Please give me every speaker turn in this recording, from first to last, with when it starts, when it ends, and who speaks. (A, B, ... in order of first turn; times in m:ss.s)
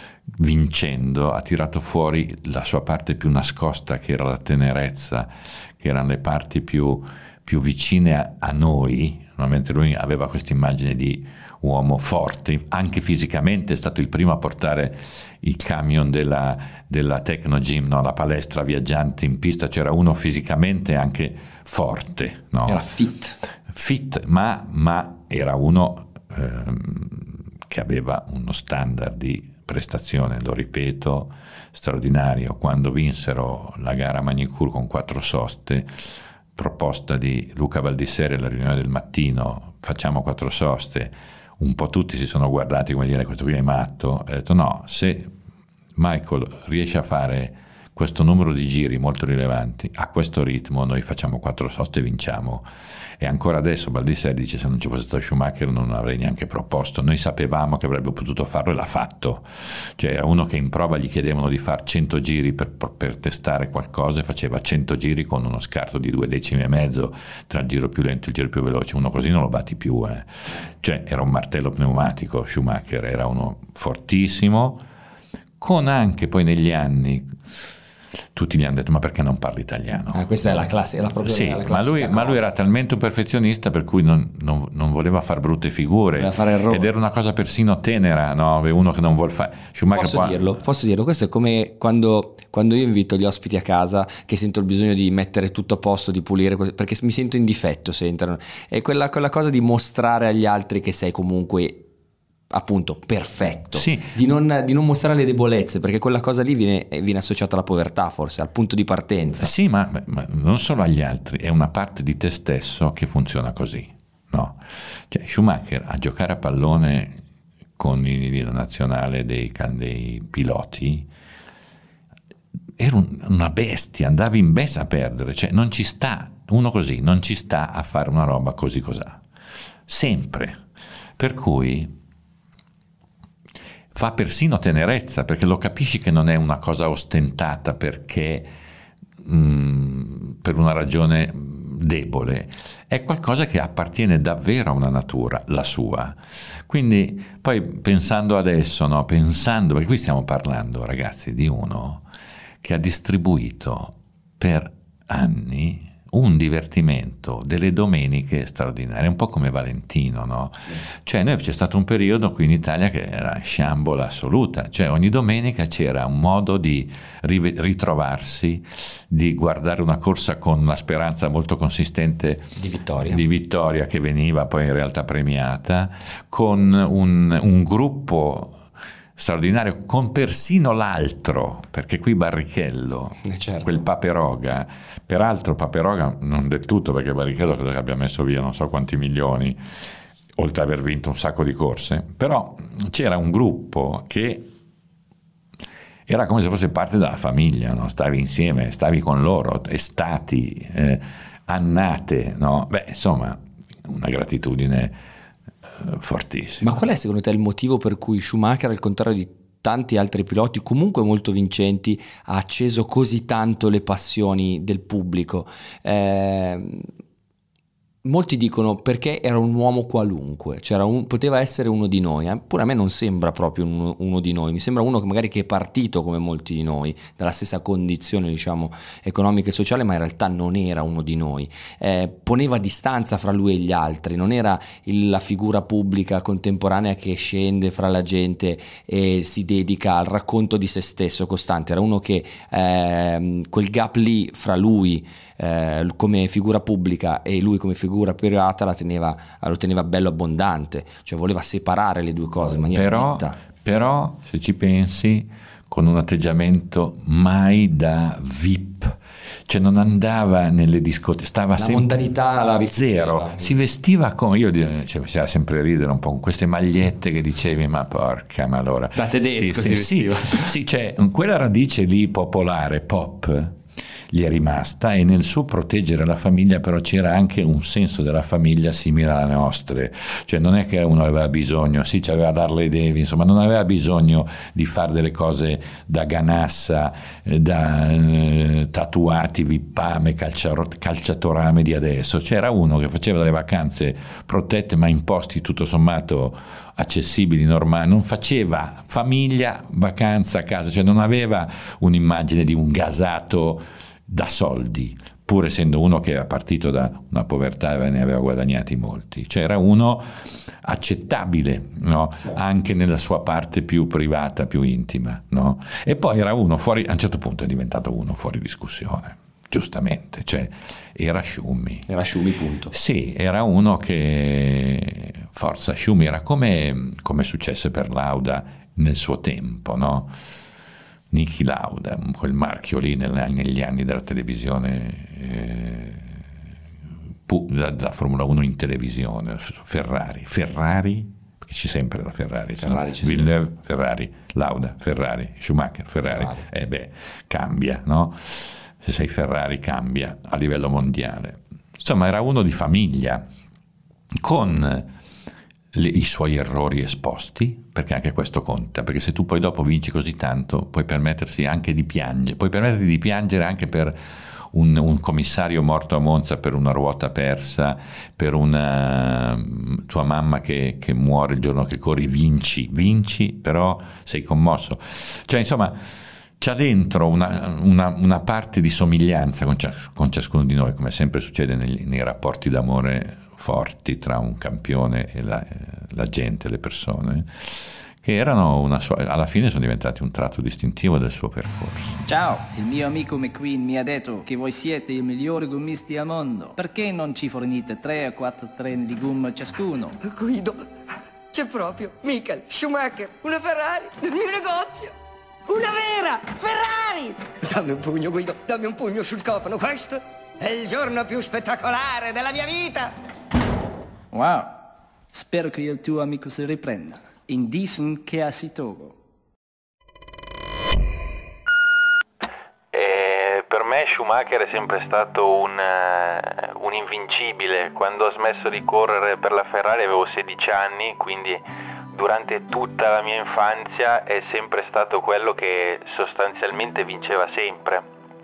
0:00.3-0:22.8 A
0:22.6-0:23.4 B
0:23.7-0:45.3 A
0:45.9-0:52.6 A
0:53.2-1:14.8 A
1:15.6-1:17.3 A
1:18.3-1:20.7 A
1:20.1-1:22.4 B
1:21.2-1:30.4 A
1:26.2-1:26.8 B
1:29.9-1:41.8 B
1:42.5-1:49.5 B
1:43.7-1:44.1 A
1:49.4-1:57.2 A
1:57.8-2:01.1 A
2:02.8-2:09.2 A
2:09.9-2:10.6 A
2:11.2-2:11.9 A
2:13.9-2:18.5 A
2:19.2-2:32.0 A
2:32.6-2:58.6 A
2:52.6-2:53.2 B
2:59.2-3:09.6 A
3:03.2-3:03.7 B
3:10.4-3:14.5 A
3:16.1-3:25.0 A
3:25.6-3:26.8 A
3:26.6-3:36.9 B
3:38.0-4:13.4 B
4:12.7-4:22.0 A
4:21.6-4:23.5 B
4:22.7-4:33.6 A
4:29.0-4:30.5 B
4:34.1-5:21.9 A
5:21.9-5:22.7 B
5:22.7-5:30.1 A
5:31.1-5:36.2 A
5:37.2-5:53.2 A
5:42.6-5:43.3 B
5:46.1-5:46.4 B
5:54.2-5:54.9 A
5:55.7-6:15.8 A
6:16.4-6:32.0 A
6:32.0-6:40.0 C
6:40.0-6:40.8 D
6:41.3-6:44.9 D
6:45.5-6:52.9 D
6:54.1-6:54.5 C
6:55.1-6:59.0 C
7:02.7-7:17.8 E